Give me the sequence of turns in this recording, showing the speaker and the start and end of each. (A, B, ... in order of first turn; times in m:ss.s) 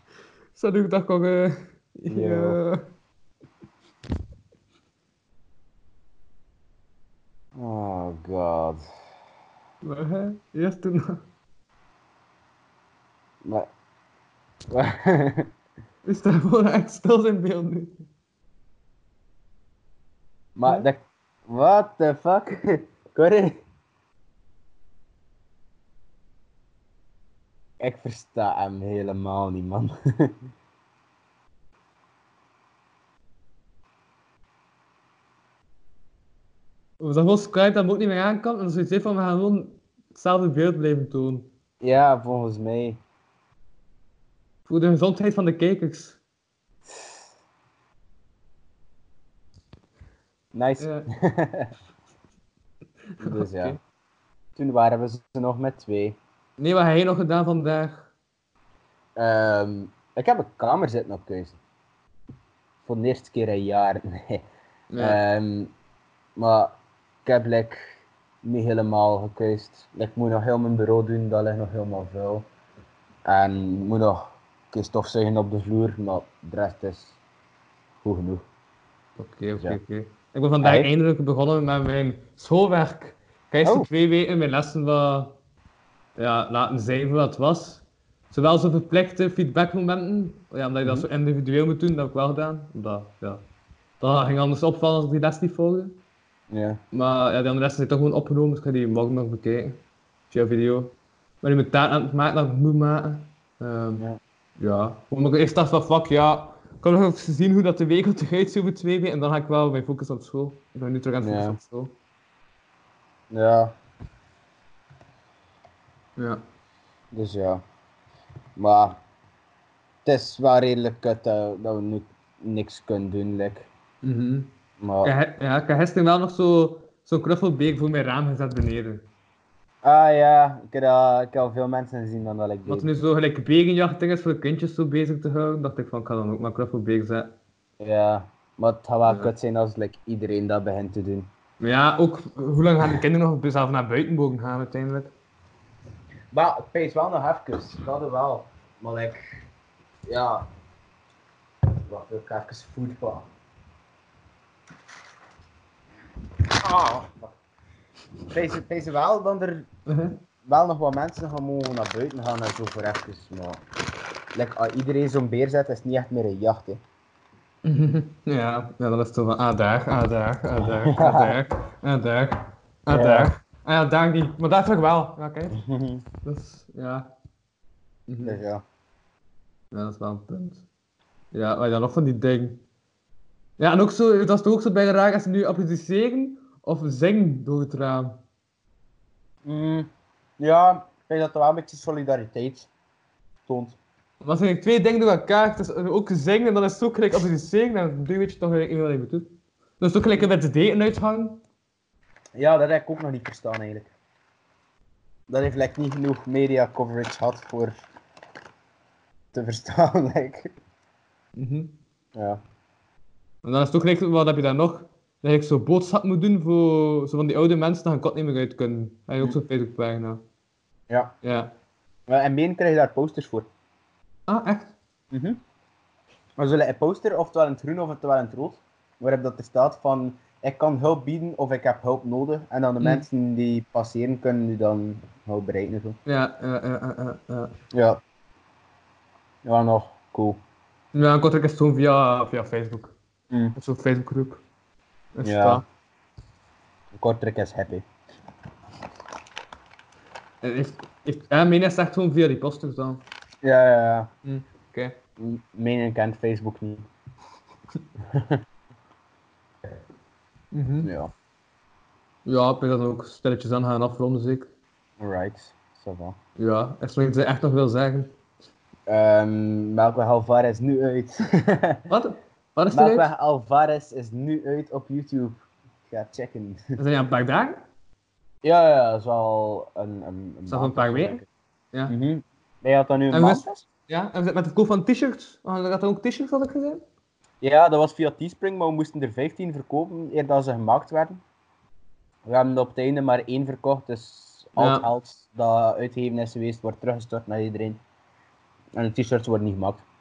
0:00.6-0:02.8 A
0:02.1-0:02.6 B
0:07.6-0:08.8 B
0:09.8-0:11.2 A
0:14.7-0:15.5 B
0:16.1-0:18.0 A
0:20.6-0:23.6 B
0:27.8-0:30.4 B
0:37.0-0:41.5 A
0:41.8-0:43.0 B
0:44.7-0:46.2 A
0:50.5-0:51.7 B
0:50.8-0:51.1 A
0:53.2-0:53.8 A
0:53.2-0:53.8 B
0:54.6-0:56.2 B
0:56.6-0:58.1 A
0:59.2-1:01.6 B
1:02.8-1:04.4 B
1:04.9-1:05.2 A
1:05.0-1:05.7 B
1:06.4-1:12.5 B
1:13.3-1:17.2 B
1:18.0-1:18.4 B
1:19.2-1:25.4 A
1:20.6-1:20.9 B
1:23.6-1:23.9 B
1:26.2-1:33.4 A
1:34.0-1:36.0 A
1:36.5-1:36.8 B
1:36.9-1:39.8 A
1:40.3-1:44.0 A
1:44.6-1:51.9 A
1:51.2-1:51.6 B
1:53.3-1:53.7 B
1:56.2-1:56.4 A
1:57.1-1:57.6 B
1:58.6-1:59.0 B
2:00.0-2:03.7 B
2:04.0-2:04.5 A
2:04.8-2:05.1 B
2:05.0-2:09.0 A
2:09.8-2:12.9 B
2:12.7-2:17.4 A
2:17.8-2:21.3 B
2:21.6-2:25.1 A
2:26.3-2:29.2 B
2:30.1-2:30.5 B
2:31.9-2:33.3 B
2:36.5-2:37.4 B
2:38.3-2:39.7 B
2:39.9-2:40.2 A
2:40.4-2:43.6 B
2:44.3-2:46.8 B
2:47.6-2:55.6 A
2:50.6-2:51.4 B
2:52.9-2:53.3 B
2:55.5-2:56.1 B
2:56.2-2:57.1 A
2:58.1-2:58.4 A
2:58.2-2:58.6 B
2:59.7-3:00.6 A
3:01.3-3:02.6 A
3:03.6-3:08.2 A
3:09.5-3:12.7 B
3:13.5-3:13.8 B
3:14.2-3:21.4 A
3:22.4-3:23.9 B
3:25.3-3:27.8 B
3:29.3-3:30.5 B
3:31.4-3:31.7 A
3:32.2-3:32.4 B
3:33.4-3:40.2 A
3:40.9-3:41.1 B
3:41.2-3:41.5 A
3:42.1-3:43.5 B
3:44.3-3:44.7 A
3:45.1-3:45.4 B
3:46.4-3:56.0 B
3:56.1-3:57.6 A
3:57.7-3:58.0 B
3:59.4-4:00.4 B
4:00.9-4:02.9 A
4:03.3-4:03.6 B
4:03.6-4:04.4 A
4:05.2-4:05.6 A
4:05.2-4:05.6 B
4:06.9-4:07.8 B
4:10.4-4:13.0 A
4:13.4-4:14.1 B
4:14.2-4:15.0 A
4:15.2-4:16.9 B
4:18.0-4:18.4 B
4:20.5-4:20.9 A
4:20.8-4:21.1 B
4:22.3-4:24.5 A
4:25.0-4:26.2 B
4:26.4-4:28.1 A
4:28.9-4:31.8 B
4:31.9-4:33.1 A
4:32.7-4:36.6 B
4:36.8-4:37.6 A
4:38.4-4:41.3 B
4:40.5-4:42.0 A
4:41.9-4:43.7 B
4:43.1-4:46.8 A
4:47.4-4:51.2 B
4:52.3-4:57.8 B
4:54.6-4:54.9 A
4:58.8-4:59.8 B